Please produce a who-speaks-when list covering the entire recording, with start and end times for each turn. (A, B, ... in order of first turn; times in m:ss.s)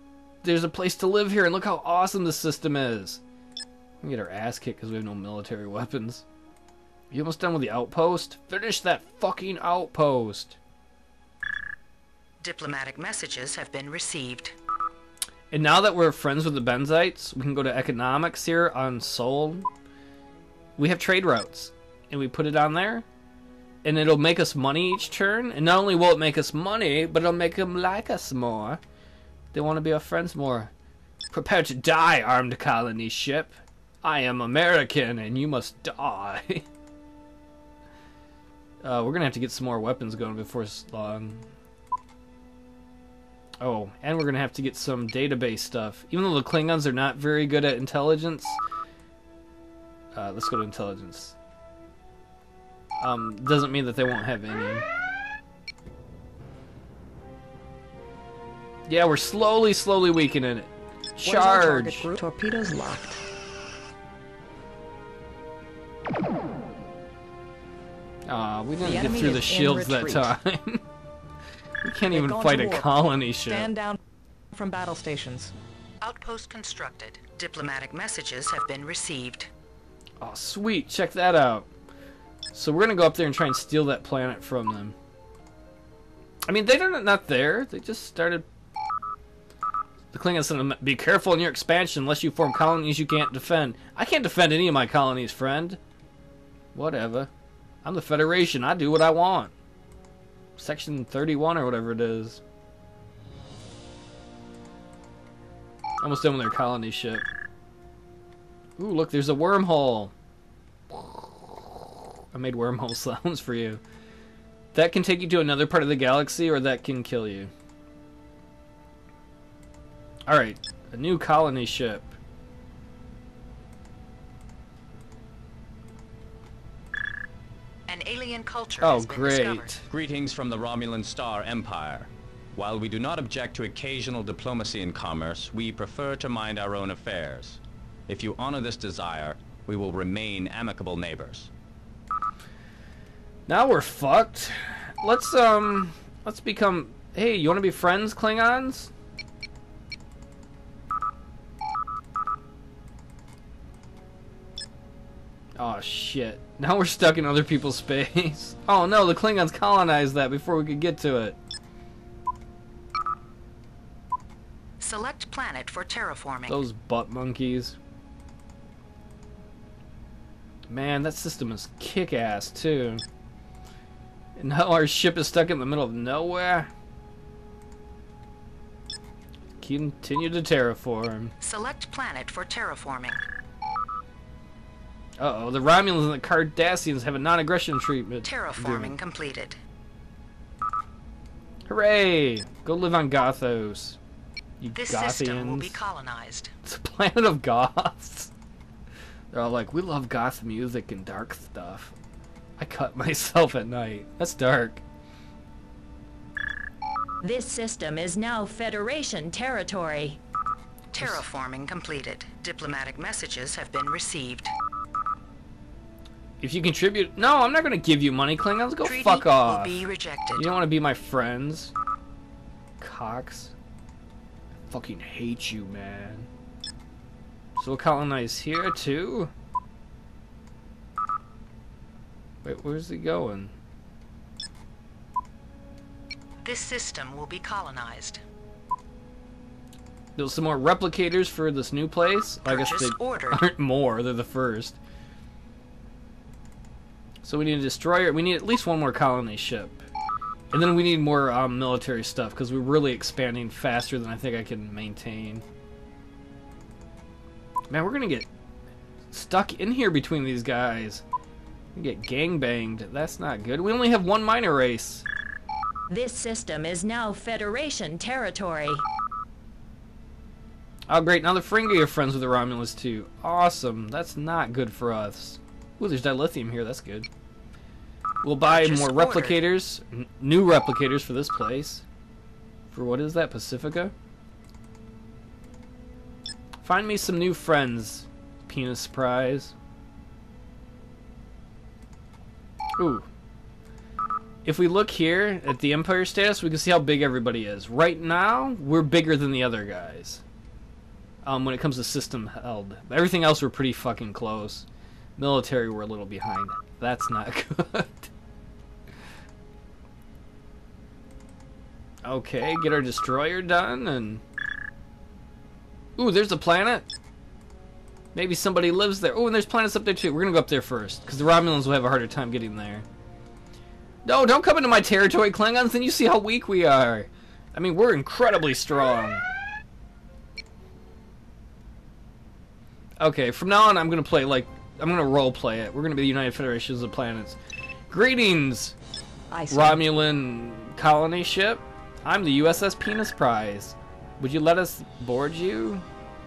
0:00.4-0:03.2 A
0:04.0-0:06.2 A
0:07.1-0:10.6 A
0:12.4-0:14.6 B
0:15.5-0:19.7 A
0:20.8-0:23.1 A
0:23.8-0:28.8 A
0:29.5-0:30.7 A
0:31.3-0:36.6 A
0:38.8-0:41.4 A
0:43.6-0:48.6 A
0:50.2-0:51.4 A
0:53.0-0:54.8 A
0:58.9-1:02.1 A
1:01.2-1:03.2 C
1:08.3-1:10.8 A
1:08.8-1:10.3 C
1:11.8-1:13.7 A
1:12.1-1:12.9 C
1:13.5-1:14.0 C
1:14.5-1:15.5 C
1:16.0-1:19.5 B
1:20.2-1:21.7 A
1:22.5-1:24.9 A
1:26.5-1:28.4 A
1:30.1-1:35.8 A
1:36.8-1:37.3 A
1:37.8-1:39.5 A
1:40.6-1:42.4 A
1:46.0-1:47.3 A
1:48.8-1:50.1 A
1:50.9-1:51.2 A
1:52.3-1:53.8 A
1:54.7-1:57.5 A
2:00.3-2:02.1 A
2:07.9-2:09.8 B
2:08.8-2:09.8 A
2:09.9-2:21.5 D
2:23.5-2:28.9 A
2:35.6-2:41.4 A
2:44.8-2:46.6 B
2:46.5-2:47.8 A
2:50.7-2:53.0 A
2:54.4-2:56.7 A
2:59.6-3:01.3 A
3:01.4-3:03.2 B
3:05.2-3:09.0 A
3:08.2-3:09.6 B
3:11.7-3:14.0 A
3:14.6-3:15.8 A
3:14.8-3:16.5 B
3:16.6-3:18.3 A
3:19.3-3:22.0 A
3:22.6-3:24.8 A
3:27.2-3:30.2 E
3:30.9-3:34.5 B
3:36.4-3:39.8 A
3:38.8-3:40.6 B
3:40.4-3:41.7 A
3:42.8-3:43.5 A
3:44.7-3:46.3 A
3:47.6-3:49.3 A
3:52.4-3:53.5 A
3:56.4-3:58.2 B
4:00.2-4:04.8 A
4:02.5-4:03.4 B
4:07.2-4:09.8 A
4:10.5-4:15.4 A
4:17.7-4:18.3 A
4:19.1-4:21.0 A
4:21.8-4:25.0 A
4:25.9-4:28.8 E
4:30.9-4:37.1 A
4:38.2-4:41.8 A
4:38.4-4:39.4 B
4:42.7-4:43.9 A
4:46.6-4:49.5 A
4:52.8-4:53.1 A
4:54.4-5:00.2 A
5:01.2-5:04.7 A
5:05.2-5:08.1 A
5:12.0-5:14.2 A
5:16.0-5:16.9 A
5:18.2-5:22.8 A
5:24.0-5:29.2 A
5:33.0-5:37.4 A
5:37.9-5:38.8 A
5:39.3-5:39.8 C
5:39.5-5:45.8 A